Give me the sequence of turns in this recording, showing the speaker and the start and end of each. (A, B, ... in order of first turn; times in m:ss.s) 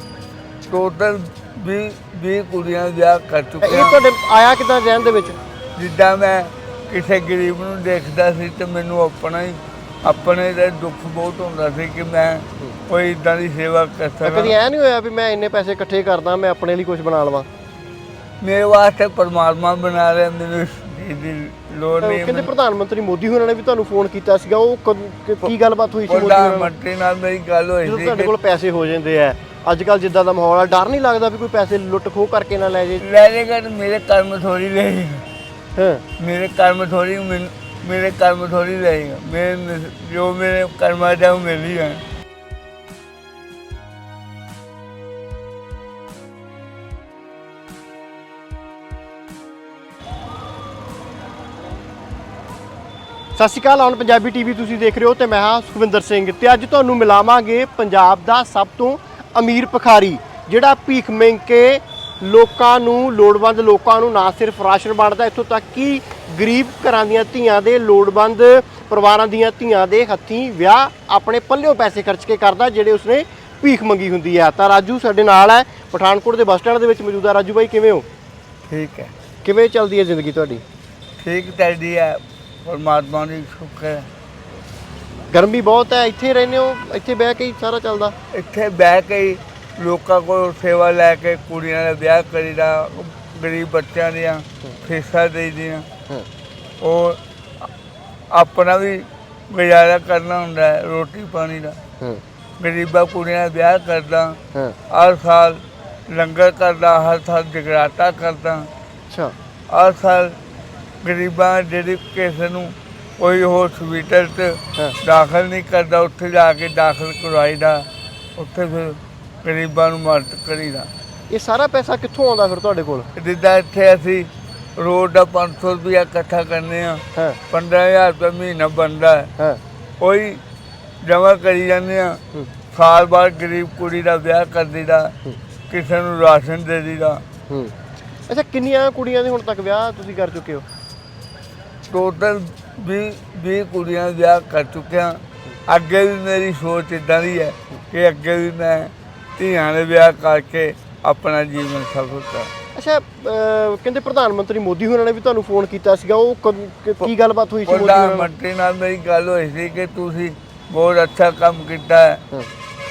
0:00.7-0:04.0 A
0:03.6-0:05.4 B
0:05.8-0:14.6 A
0:14.2-0:17.5 B
0:18.4-0:22.5 A
0:22.0-0:26.7 B
0:26.0-0:28.3 A
0:27.8-0:33.0 B
0:33.0-0:35.3 A
0:35.8-0:36.0 B
0:36.2-0:42.0 A
0:53.4-1:18.0 B
1:18.6-1:19.1 A
1:19.4-1:20.6 B
1:21.2-1:24.1 A
1:25.3-1:28.1 B
1:28.3-1:35.9 A
1:36.8-1:37.2 A
1:38.3-1:41.8 A
1:42.6-1:48.7 A
1:49.1-1:49.3 B
1:49.7-1:50.4 A
1:51.0-2:00.9 A
2:01.3-2:03.1 B
2:03.1-2:09.3 A
2:10.0-2:10.4 A
2:11.0-2:15.1 A
2:15.7-2:17.2 A
2:17.5-2:17.7 B
2:18.3-2:20.6 B
2:21.9-2:32.5 A
2:32.7-2:38.3 B
2:37.6-2:42.2 A